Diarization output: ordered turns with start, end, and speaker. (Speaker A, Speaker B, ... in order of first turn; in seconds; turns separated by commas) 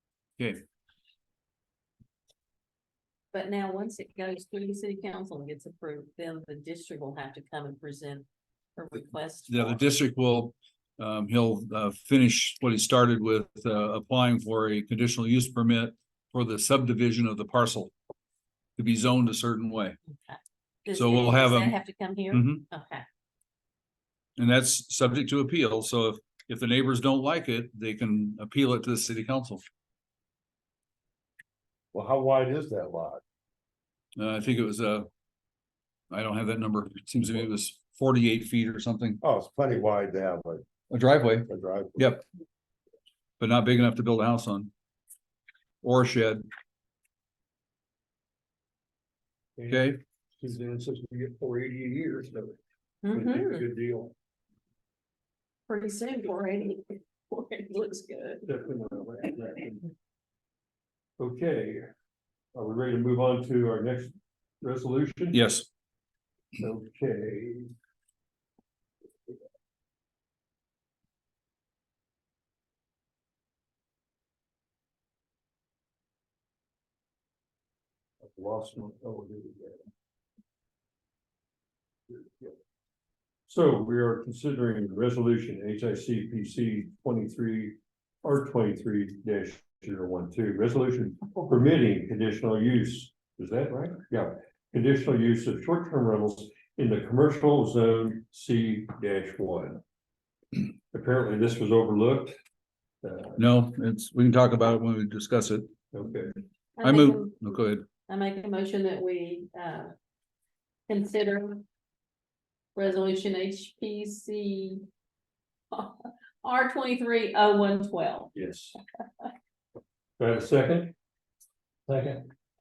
Speaker A: 3.3-9.9, Speaker B: 9.5-17.9, Speaker B: 18.8-20.0, Speaker A: 20.2-23.1, Speaker B: 20.9-21.8, Speaker B: 22.3-22.6, Speaker B: 24.4-29.6, Speaker C: 31.9-33.2, Speaker B: 34.2-35.1, Speaker B: 36.1-39.2, Speaker C: 39.2-40.6, Speaker B: 40.9-42.2, Speaker C: 41.5-42.1, Speaker B: 43.4-44.7, Speaker B: 45.8-46.5, Speaker D: 49.6-52.6, Speaker B: 49.7-50.0, Speaker A: 53.0-53.7, Speaker D: 53.1-54.1, Speaker A: 55.7-58.5, Speaker D: 58.5-59.9, Speaker D: 61.2-61.9, Speaker D: 62.5-65.4, Speaker B: 65.3-65.7, Speaker D: 66.6-67.7, Speaker D: 78.2-79.8, Speaker D: 82.1-82.5, Speaker D: 83.5-99.8, Speaker D: 100.6-102.3, Speaker D: 103.0-103.4, Speaker B: 103.4-105.7, Speaker D: 105.9-106.4, Speaker A: 106.8-109.9, Speaker B: 106.8-107.9, Speaker A: 110.9-111.6, Speaker A: 112.8-114.8, Speaker A: 115.7-118.3, Speaker D: 118.3-118.8, Speaker D: 120.2-121.0, Speaker D: 121.9-122.3